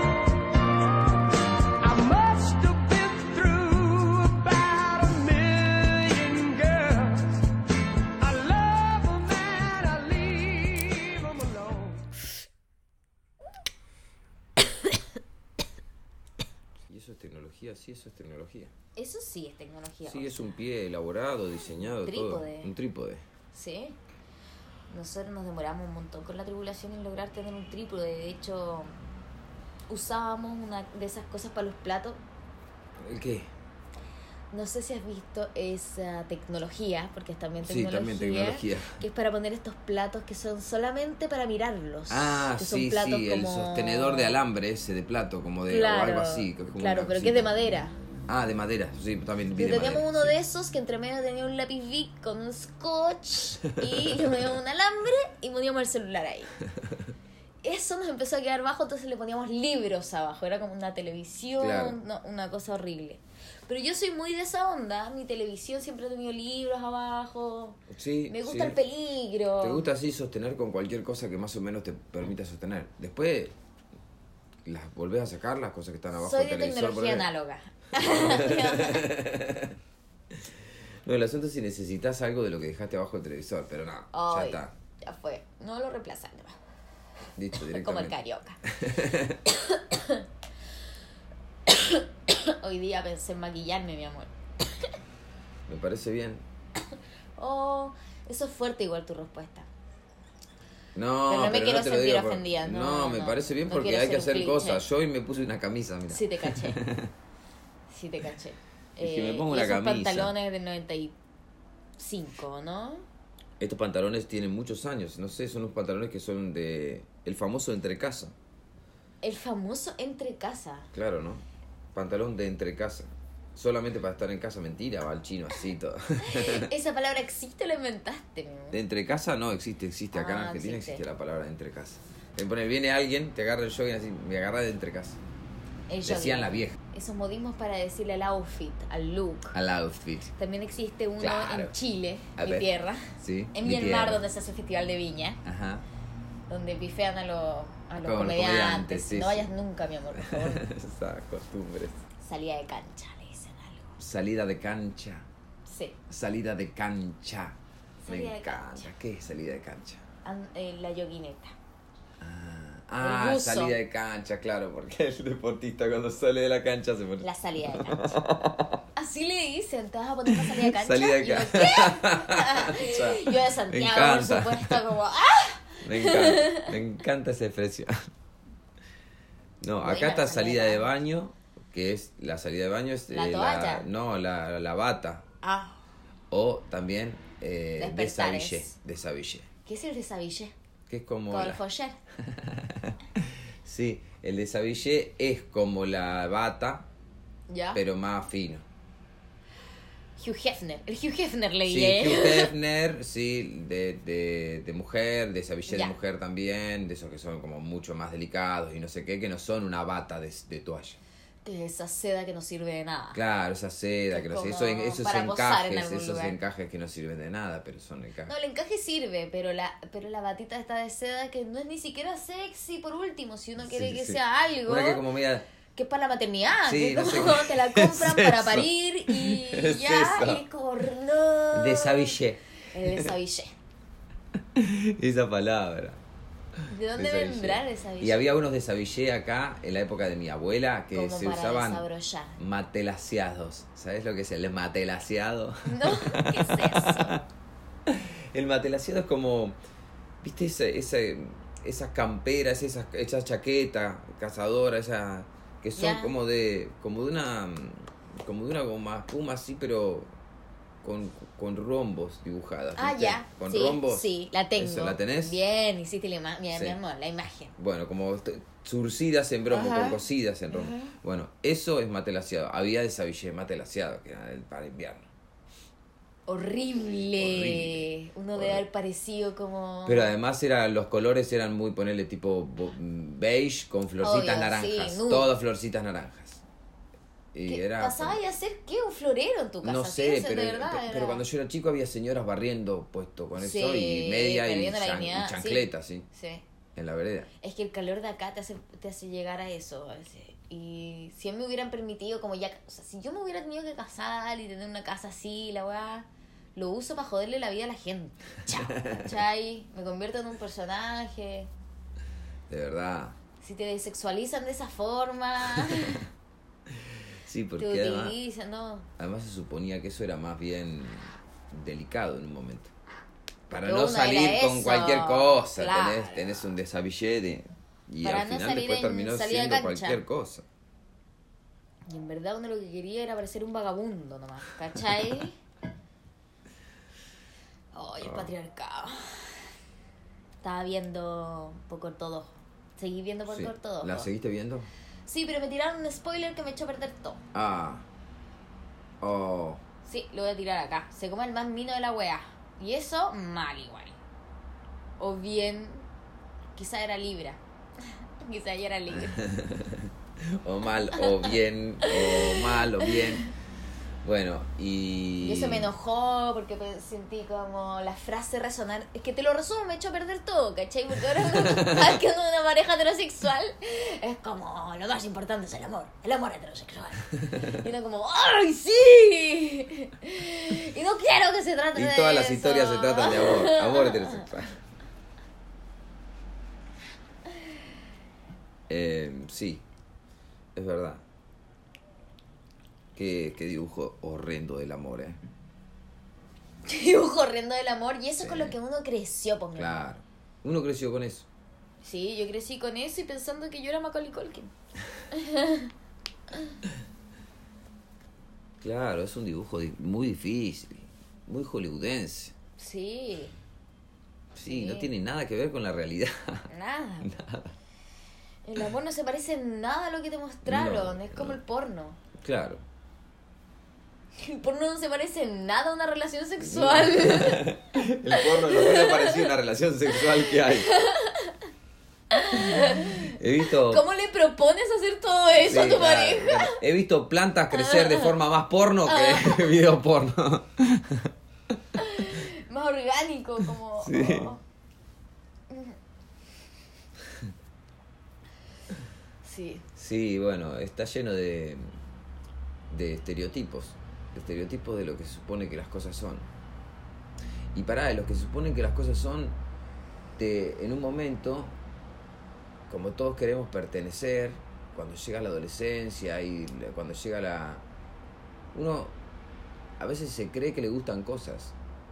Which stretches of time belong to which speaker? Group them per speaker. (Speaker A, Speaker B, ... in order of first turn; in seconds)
Speaker A: 1.8-7.5, 8.2-12.1
Speaker B: 16.9-18.7, 20.1-23.2, 33.0-33.5, 37.6-39.0, 42.1-47.7, 48.3-50.3, 53.8-54.5, 61.6-62.0, 67.9-68.8, 69.6-73.5, 74.7-77.3, 78.0-79.8, 80.3-84.7, 87.4-88.2, 88.7-89.4, 95.7-96.5, 101.0-107.1, 109.0-110.3, 113.6-118.3, 120.9-121.4, 122.0-126.7, 128.7-135.2, 136.1-136.8, 139.5-140.3, 141.2-141.7, 142.4-144.2, 145.4-145.8, 148.0-149.5, 150.1-152.1, 154.0-155.3, 156.1-160.0, 162.2-168.8, 170.3-174.8, 175.8-178.1, 179.6-185.3, 186.3-189.5, 190.9-191.6, 192.2-196.9, 197.7-198.6, 201.7-211.0, 213.1-218.3, 223.6-225.5, 226.7-230.4, 231.5-233.1, 234.6-236.0, 236.9-241.9, 242.4-247.2, 247.9-249.6, 250.2-260.1, 260.8-265.4, 266.5-266.8, 267.6-275.1, 277.2-278.6, 279.9-286.4, 287.3-288.2, 289.6-296.1, 296.8-297.3, 308.6-309.2, 312.5-313.2, 315.6-316.0, 316.7-318.2, 319.0-322.7, 323.5-330.4, 338.0-338.3, 343.3-344.7, 347.3-347.9, 349.0-349.6, 358.9-363.3, 364.0-365.7, 371.5-371.8, 381.7-384.6, 388.7-389.6, 390.6-391.0, 392.9-395.2, 398.2-398.6, 399.6-401.3, 408.6-412.3, 414.4-416.5, 417.0-417.6, 420.5-421.4, 422.2-422.6, 426.4-430.8, 432.4-433.8, 435.4-441.6, 443.8-444.3, 449.8-451.8, 452.7-456.3, 457.5-459.4, 460.2-461.6, 462.7-467.6, 468.5-469.0, 469.8-471.5
Speaker C: 19.0-20.5, 22.0-22.7, 23.5-24.0, 24.9-29.0, 29.9-32.2, 34.5-44.4, 45.7-48.0, 49.6-56.5, 57.6-69.8, 76.2-79.1, 84.1-86.6, 87.5-88.6, 89.5-90.3, 91.7-94.9, 97.4-99.7, 101.3-104.8, 106.1-106.8, 107.9-111.2, 112.0-113.0, 119.2-120.9, 126.2-128.8, 130.1-131.0, 135.9-139.6, 140.4-145.4, 146.5-150.7, 152.2-154.0, 155.7-156.0, 158.0-158.9, 160.2-161.6, 163.0-163.8, 167.2-168.2, 169.0-176.7, 179.8-180.9, 183.1-183.8, 185.4-185.8, 187.8-188.8, 189.7-190.5, 191.3-192.0, 197.5-197.8, 200.2-202.5, 205.7-205.9, 211.4-213.2, 214.1-216.4, 218.3-225.1, 225.7-233.5, 236.7-238.3, 240.9-242.4, 245.6-247.2, 255.8-256.1, 262.8-267.5, 269.5-271.0, 276.3-280.1, 284.0-285.3, 287.4-291.2, 293.4-296.4, 297.4-311.5, 313.4-316.1, 317.6-318.9, 323.6-326.5, 328.0-330.0, 331.9-335.4, 337.7-339.4, 340.4-344.1, 345.1-347.2, 349.9-354.0, 355.0-355.9, 356.6-357.4, 358.2-359.2, 360.9-363.3, 365.2-384.3, 396.6-399.8, 401.8-404.5, 405.1-405.7, 412.6-413.4, 414.5-414.9, 416.5-417.1, 418.4-422.0, 424.2-429.3, 430.0-431.4, 432.1-436.6, 437.5-438.1, 438.9-439.6, 441.8-444.4, 445.5-445.8, 449.2-449.6